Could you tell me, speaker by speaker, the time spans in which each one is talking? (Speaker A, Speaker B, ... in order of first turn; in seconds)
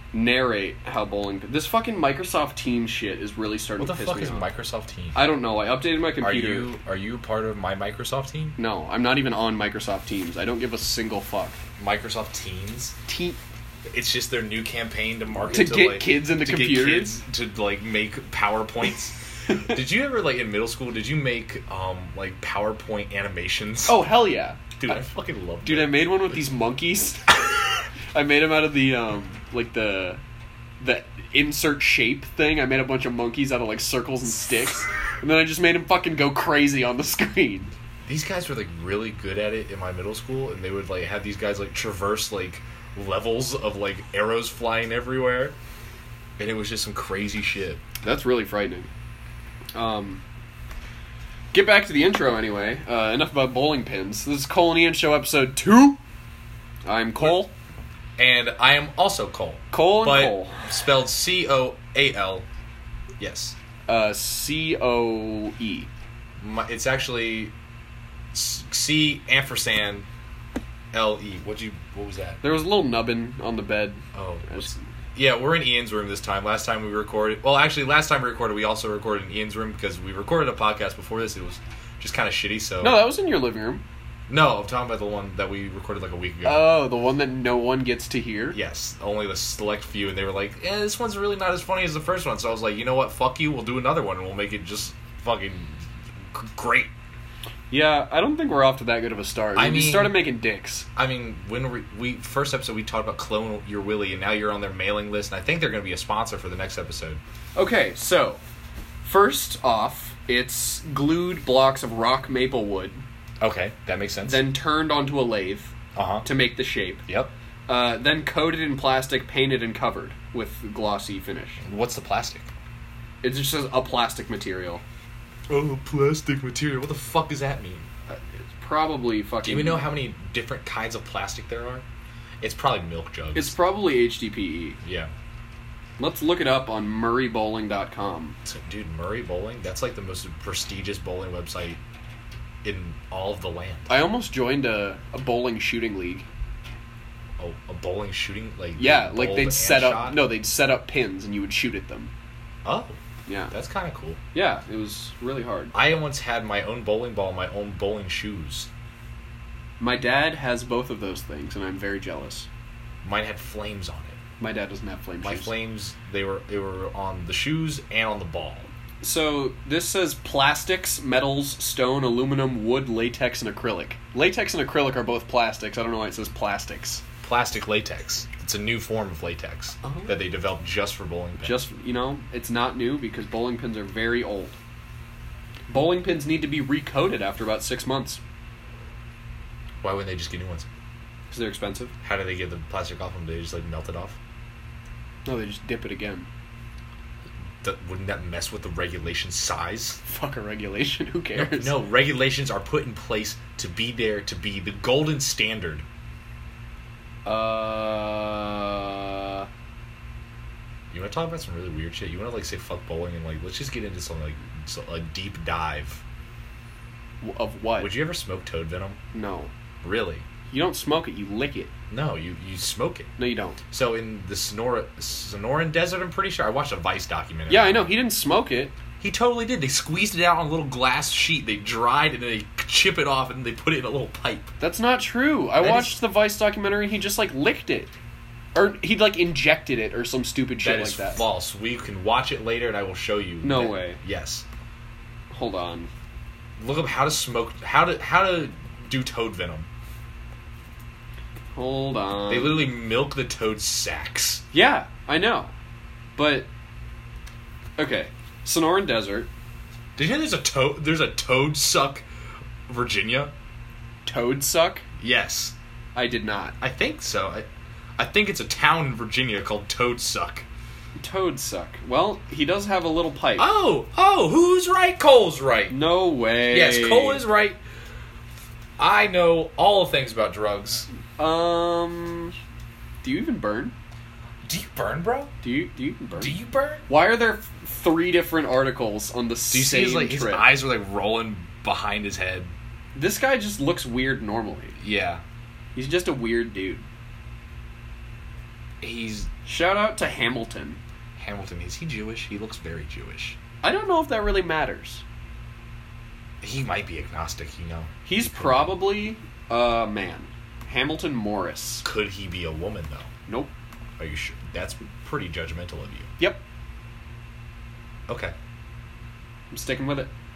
Speaker A: 0.1-4.5, 5.2-6.7, 8.6-11.6, 13.1-13.4, 15.5-17.2, 19.5-19.8, 23.9-25.0, 25.6-27.3, 28.1-30.2, 30.8-37.7, 48.0-48.9, 49.8-50.2, 51.5-56.0, 56.9-57.5, 59.7-60.7, 63.9-65.9, 72.4-74.8, 82.8-83.8, 86.4-88.6, 97.7-100.9, 107.5-108.4, 109.0-113.0, 114.2-117.0, 117.7-121.6, 123.2-124.8, 128.1-129.9, 133.3-134.8, 136.0-138.4, 143.9-146.2, 148.8-152.1, 153.3-153.5, 154.3-155.8, 159.8-162.5, 164.4-165.6, 169.0-177.0, 179.8-180.2, 181.4-184.6, 185.7-188.2, 191.3-191.9, 195.2-196.3, 200.1-201.8, 207.2-209.5, 217.2-217.9, 219.1-219.5, 220.5-221.7, 223.2-223.6, 227.5-228.8, 234.6-237.9, 238.6-241.2, 243.4-244.0, 245.3-245.9, 251.6-252.7, 254.5-255.5, 256.2-256.5, 257.8-259.3, 264.1-264.9, 265.9-266.6, 271.0-273.5, 275.7-277.2, 281.2-282.4, 283.0-283.8, 285.4-286.4, 286.9-290.5, 292.9-294.8, 295.8-296.9, 299.5-300.8, 303.6-305.0, 308.1-311.9, 313.3-313.5, 319.5-320.1
Speaker B: 3.8-5.2, 6.2-8.6, 11.8-13.0, 13.9-24.1, 24.8-26.5, 38.0-45.6, 46.4-47.8, 58.2-62.5, 63.2-63.6, 66.4-67.5, 68.3-70.1, 70.9-72.4, 74.1-83.0, 84.3-86.8, 88.5-96.9, 99.5-100.2, 101.0-107.2, 113.4-114.5, 116.0-116.3, 117.1-117.3, 121.6-122.5, 125.5-127.9, 129.4-131.8, 132.4-133.6, 134.8-135.1, 138.4-141.8, 142.6-143.9, 147.4-150.3, 152.7-153.0, 153.5-154.2, 155.7-158.7, 163.0-164.2, 165.2-168.7, 177.2-181.6, 189.8-190.7, 192.0-194.2, 197.6-200.0, 201.3-205.9, 210.9-216.0, 217.8-219.0, 219.8-220.3, 221.9-223.1, 223.7-227.9, 229.0-234.5, 235.6-236.0, 240.6-244.4, 246.6-249.7, 252.3-254.4, 260.0-262.1, 262.7-263.3, 265.0-265.6, 266.6-270.5, 273.4-275.8, 276.5-277.6, 278.8-280.9, 284.4-285.3, 286.2-286.9, 289.5-292.5, 294.8-295.2, 298.8-299.3, 301.2-303.4, 306.4-308.8, 311.8-313.1, 314.0-316.1, 318.1-318.4